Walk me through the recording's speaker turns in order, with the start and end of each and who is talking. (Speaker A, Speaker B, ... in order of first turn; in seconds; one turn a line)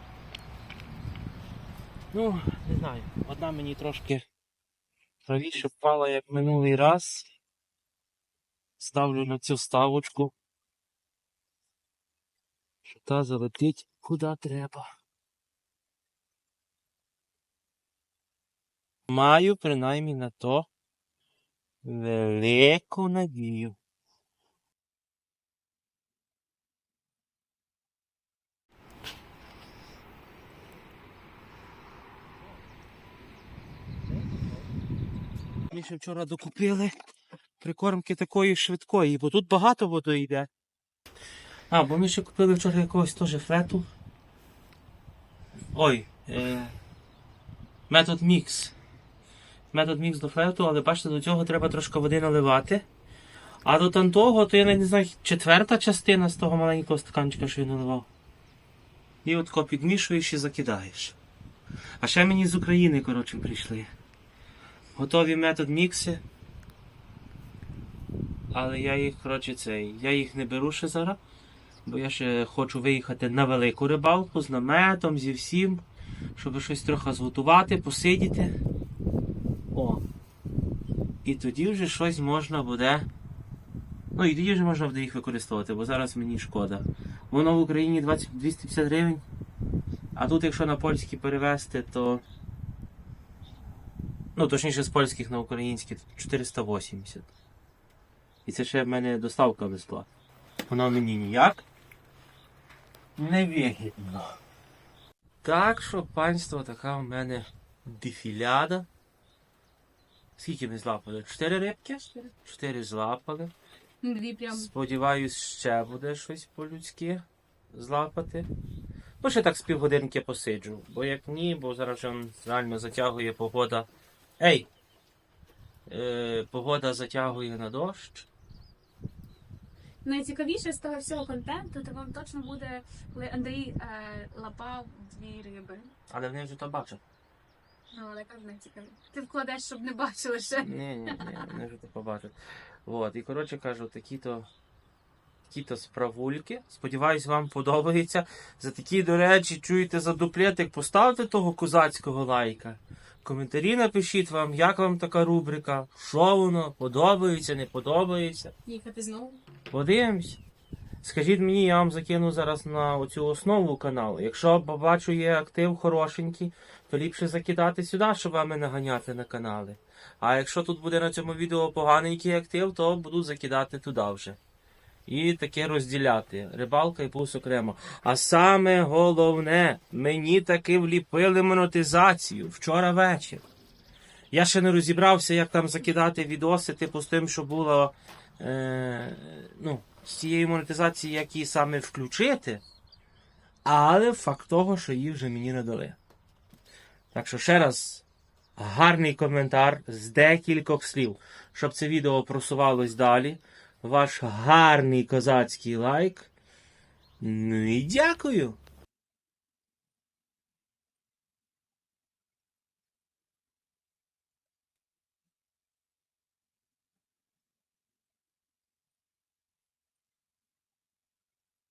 Speaker A: 2.1-4.2
Speaker A: 5.3-7.3
Speaker A: 8.8-10.3
Speaker A: 12.9-14.9
Speaker A: 19.1-20.7
Speaker A: 21.8-23.8
Speaker A: 35.7-37.0
Speaker A: 37.6-40.5
Speaker A: 41.7-43.9
Speaker A: 45.7-46.8
Speaker A: 47.9-48.8
Speaker A: 49.7-52.9
Speaker A: 53.6-58.1
Speaker A: 59.2-61.2
Speaker A: 62.0-63.9
Speaker A: 65.0-66.2
Speaker A: 68.5-71.2
Speaker A: 71.8-75.8
Speaker A: 76.4-78.6
Speaker A: 79.7-80.0
Speaker A: 81.2-83.1
Speaker A: 84.2-89.2
Speaker A: 90.2-92.2
Speaker A: 94.4-97.3
Speaker A: 98.5-100.1
Speaker A: 100.7-101.7
Speaker A: 103.2-104.4
Speaker A: 105.4-108.9
Speaker A: 110.4-113.5
Speaker B: 114.0-114.7
Speaker A: 114.5-118.5
Speaker A: 119.2-123.9
Speaker A: 124.4-124.7
Speaker A: 125.9-128.3
Speaker B: 130.0-135.9
Speaker A: 136.1-137.0
Speaker B: 137.9-141.4
Speaker A: 140.6-144.5
Speaker A: 145.5-158.5
Speaker B: 158.7-159.4
Speaker A: 159.7-160.4
Speaker A: 161.0-174.4
Speaker A: 175.1-183.4
Speaker A: 184.3-192.6
Speaker A: 193.7-196.0
Speaker A: 197.1-198.0
Speaker A: 198.6-206.3
Speaker A: 207.2-208.6